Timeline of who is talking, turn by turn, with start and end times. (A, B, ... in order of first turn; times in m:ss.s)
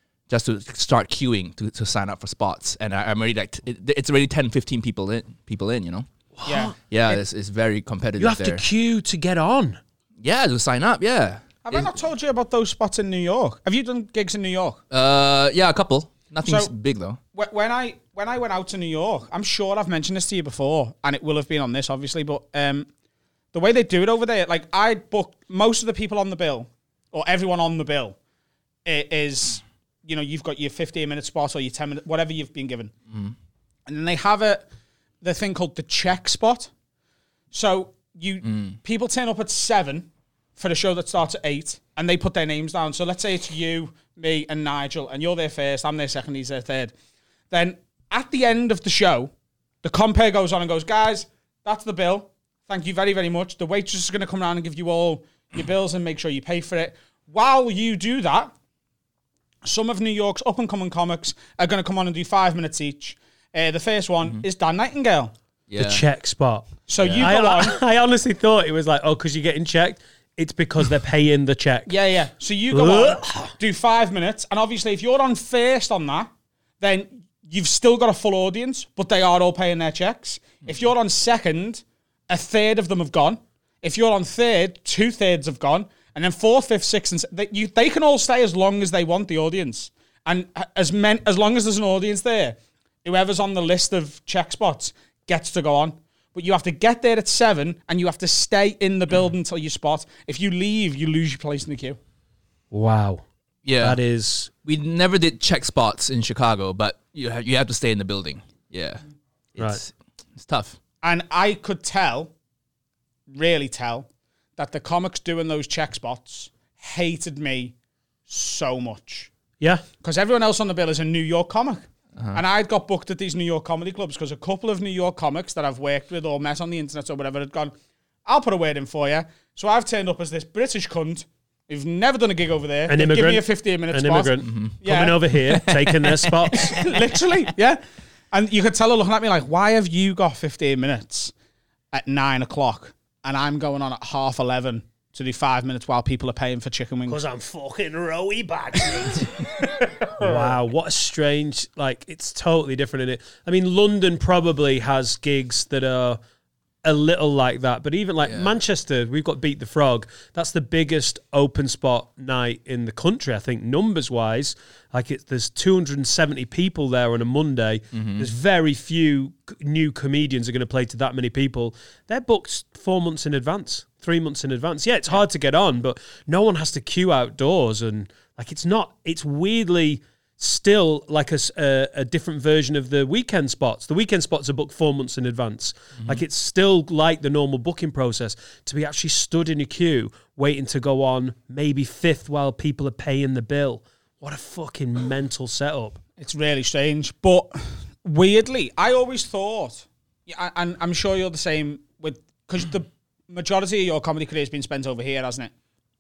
0:00.3-0:06.1 A
0:06.4-0:07.1 B
0:06.5-0:06.7 C
0:06.8-0:08.6 A
0:08.2-0:09.8 B
0:10.2-0:11.9 A
0:11.6-0:14.8 C
0:14.9-0:17.2 A
0:16.4-0:16.7 C
0:17.3-0:22.9 C
0:23.5-0:28.2 C
0:28.9-0:32.9 C
0:33.9-0:34.7 C
0:35.2-0:36.7 C
0:37.5-0:46.9 C
0:38.4-0:38.8 A
0:47.5-0:49.3 C
0:49.8-0:58.5 C
0:59.6-1:05.3 C
1:05.7-1:06.0 A
1:05.8-1:06.7 B
1:06.9-1:07.8 C
1:07.0-1:07.3 A
1:07.2-1:11.9 B
1:11.9-1:16.3 C
1:12.7-1:13.5 B
1:16.8-1:42.0 C
1:42.7-1:43.2 B
1:43.6-1:44.0 A
1:43.8-1:44.5 B
1:44.6-1:49.0 A
1:49.6-1:50.8 A
1:51.0-1:52.3 C
1:53.3-1:57.8 C
1:58.3-1:59.3 C
2:00.0-2:07.7 C
2:08.2-2:15.7 C
2:12.9-2:16.8 B
2:14.4-2:14.8 A
2:16.2-2:17.8 C
2:18.3-2:21.3 C
2:21.9-2:27.2 C
2:27.1-2:29.3 B
2:30.2-2:36.2 B
2:36.8-3:16.0 B
2:38.2-2:38.5 A
2:47.9-2:48.3 A
3:16.2-3:17.5 C
3:18.0-3:25.5 C